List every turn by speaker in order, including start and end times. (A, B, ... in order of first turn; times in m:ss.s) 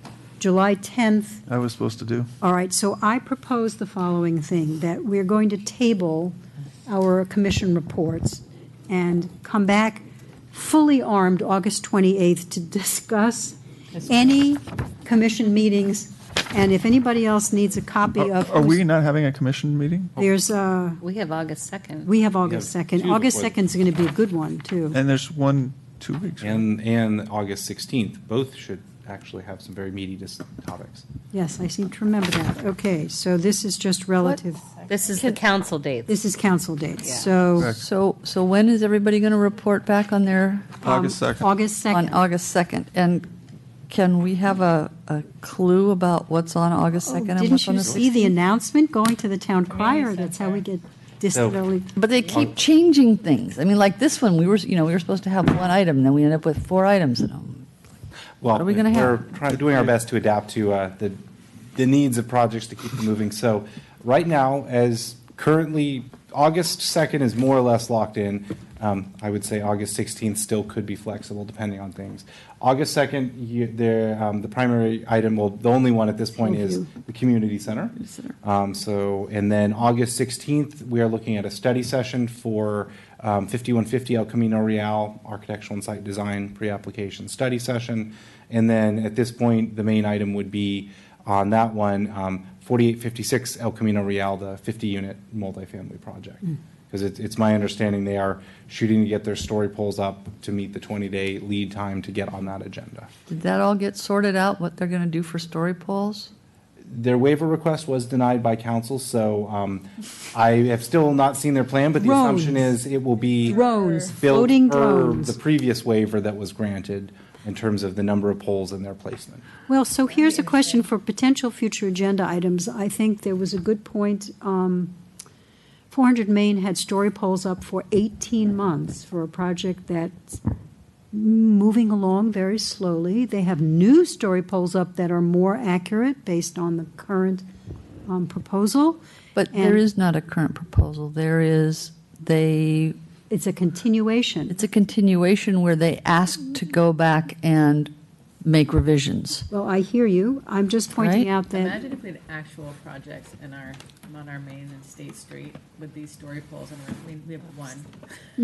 0:00.4-0:01.4 A
0:01.5-0:02.3 B
0:02.4-0:18.8 A
0:18.2-0:20.3 B
0:20.2-0:21.0 A
0:21.0-0:22.1 C
0:22.0-0:25.0 A
0:22.4-0:23.5 D
0:24.9-0:26.6 B
0:26.4-0:31.0 D
0:31.3-0:34.7 A
0:34.9-0:36.1 C
0:36.1-0:37.8 A
0:37.6-0:40.8 E
0:40.8-0:42.2 A
0:40.8-0:41.5 B
0:41.9-0:43.2 E
0:43.9-0:48.3 E
0:47.0-0:51.9 A
0:49.7-0:50.7 F
0:52.0-0:57.7 E
0:58.4-1:01.2 D
0:58.5-0:59.4 E
1:01.8-1:43.1 D
1:16.4-1:16.9 A
1:18.0-1:18.3 E
1:43.3-1:46.3 E
1:46.9-1:53.6 D
1:52.0-1:52.8 A
1:53.3-1:54.1 F
1:53.5-1:55.4 A
1:54.2-1:59.4 D
1:59.7-2:04.9 A
2:05.9-2:10.4 A
2:11.1-2:17.5 A
2:18.1-2:19.8 A
2:19.3-2:22.9 E
2:23.3-2:24.6 A
2:24.5-2:27.9 E
2:28.4-2:29.5 E
2:29.5-2:31.8 A
2:31.0-2:31.3 E
2:31.5-2:37.9 F